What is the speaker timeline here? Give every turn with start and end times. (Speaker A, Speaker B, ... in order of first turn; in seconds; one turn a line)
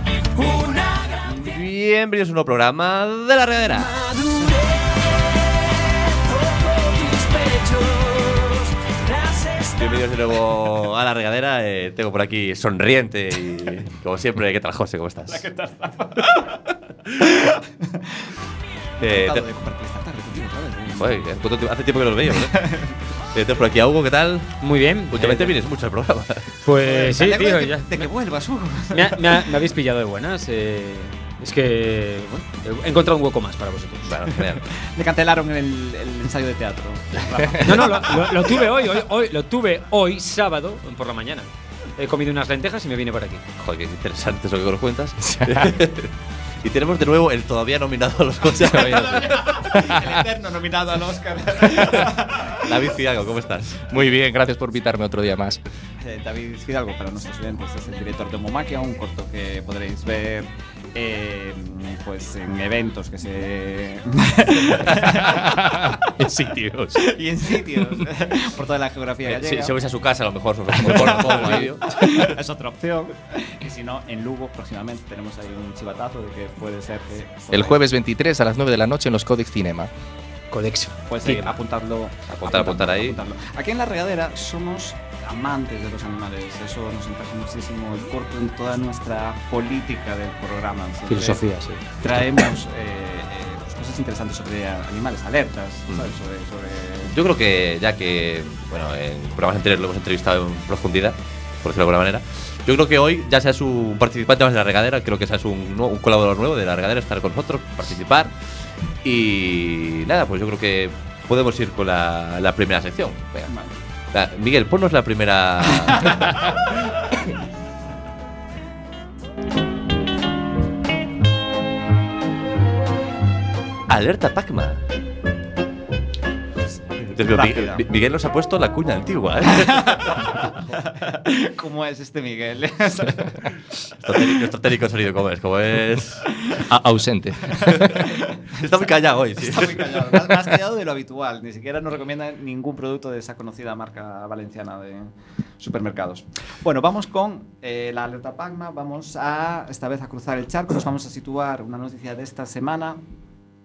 Speaker A: 0.3-1.5
Speaker B: 1.3-4.0
Speaker A: 3.7-10.0
Speaker B: 9.8-15.5
Speaker C: 15.3-18.4
Speaker B: 19.0-19.4
Speaker C: 19.0-21.2
Speaker B: 21.0-22.7
Speaker C: 22.3-23.0
Speaker B: 23.3-24.6
Speaker D: 24.6-25.6
Speaker B: 25.1-26.6
Speaker D: 26.6-28.1
Speaker C: 26.8-29.4
Speaker D: 28.9-34.2
Speaker B: 34.1-34.7
Speaker C: 34.7-38.5
Speaker D: 37.6-43.4
Speaker B: 43.6-46.1
Speaker E: 45.3-45.8
Speaker B: 46.6-49.5
Speaker E: 48.7-50.2
Speaker C: 48.7-52.8
Speaker B: 51.8-53.9
Speaker E: 53.9-55.6
Speaker C: 56.0-66.1
Speaker E: 65.0-67.0
Speaker C: 67.0-69.7
Speaker B: 69.2-72.4
Speaker E: 70.7-72.3
Speaker C: 70.8-77.8
Speaker E: 77.5-79.9
Speaker D: 80.5-81.5
Speaker C: 81.1-91.4
Speaker B: 82.3-83.2
Speaker D: 91.1-91.8
Speaker C: 92.0-97.1
Speaker B: 95.9-96.1
Speaker B: 97.1-108.3
Speaker B: 109.0-113.5
Speaker C: 113.5-113.8
Speaker B: 114.1-116.4
Speaker B: 123.9-124.8
Speaker B: 127.1-130.2
Speaker C: 127.3-127.8
Speaker C: 129.6-133.5
Speaker B: 134.0-136.3
Speaker E: 136.7-138.1
Speaker B: 137.6-138.0
Speaker C: 137.8-138.6
Speaker B: 138.5-140.5
Speaker C: 139.4-153.0